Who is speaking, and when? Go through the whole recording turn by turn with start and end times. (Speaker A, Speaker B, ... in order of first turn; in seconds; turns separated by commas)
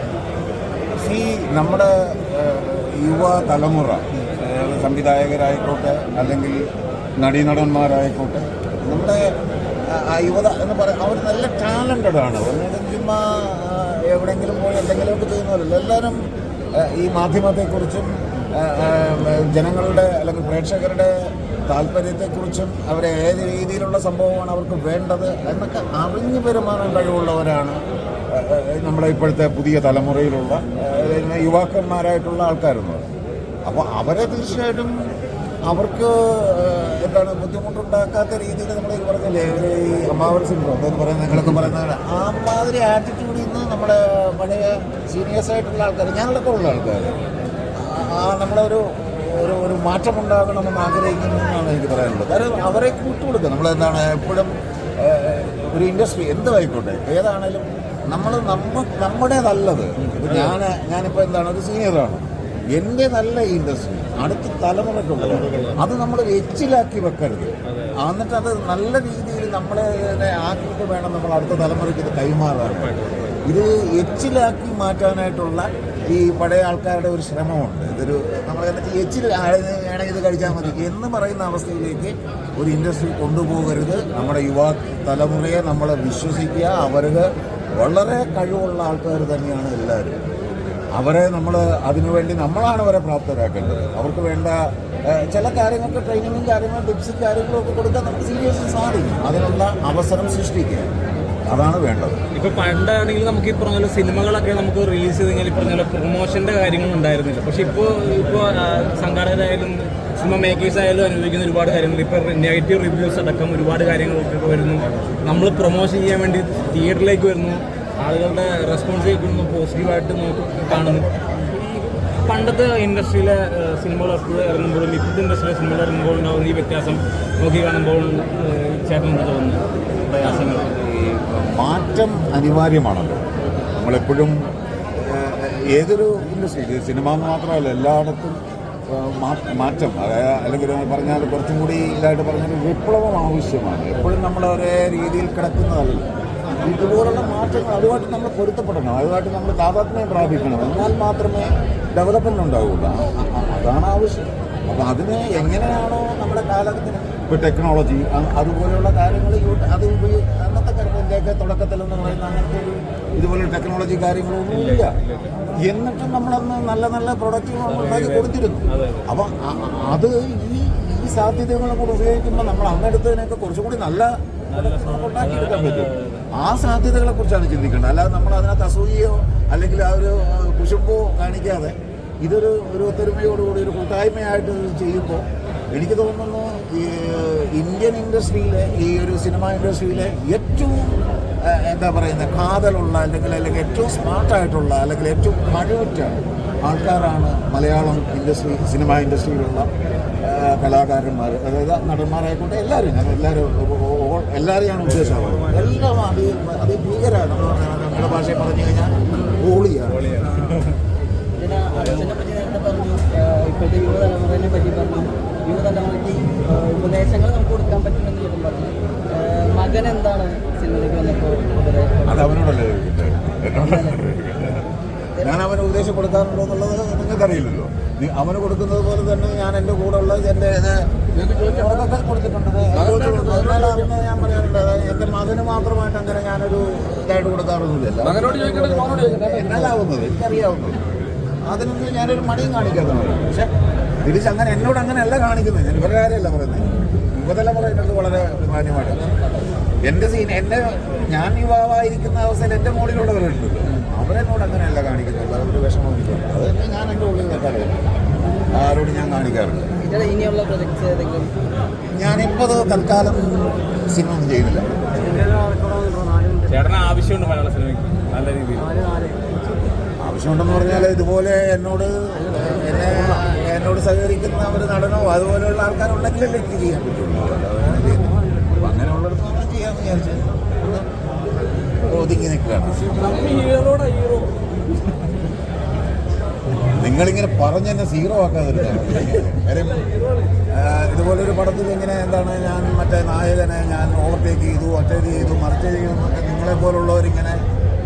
Speaker A: 0.9-16.2, Speaker A: 16.7-33.1, Speaker A: 33.6-35.1, Speaker A: 35.6-47.2, Speaker A: 47.8-72.9, Speaker B: 60.0-60.6, Speaker B: 65.2-65.8, Speaker B: 67.6-68.0, Speaker B: 72.7-73.4, Speaker A: 73.5-90.2, Speaker A: 90.9-100.9, Speaker A: 101.5-102.2, Speaker B: 102.3-121.1, Speaker B: 122.2-130.7, Speaker A: 130.2-133.2, Speaker A: 133.7-134.4, Speaker A: 135.0-164.9, Speaker B: 164.5-165.4, Speaker A: 165.6-199.7, Speaker B: 167.6-169.1, Speaker B: 174.5-176.3, Speaker A: 200.2-210.0, Speaker B: 209.9-210.8, Speaker C: 211.4-222.4, Speaker A: 222.1-240.8, Speaker C: 223.6-224.0, Speaker A: 241.5-243.5, Speaker A: 244.0-249.1, Speaker A: 249.8-257.8, Speaker A: 258.5-259.7, Speaker C: 259.8-261.3, Speaker A: 261.9-264.7, Speaker C: 265.1-266.4, Speaker B: 266.4-268.8, Speaker C: 268.7-269.3, Speaker A: 270.0-280.9, Speaker A: 281.8-283.4, Speaker B: 283.3-284.3, Speaker A: 286.7-289.9, Speaker A: 290.5-297.4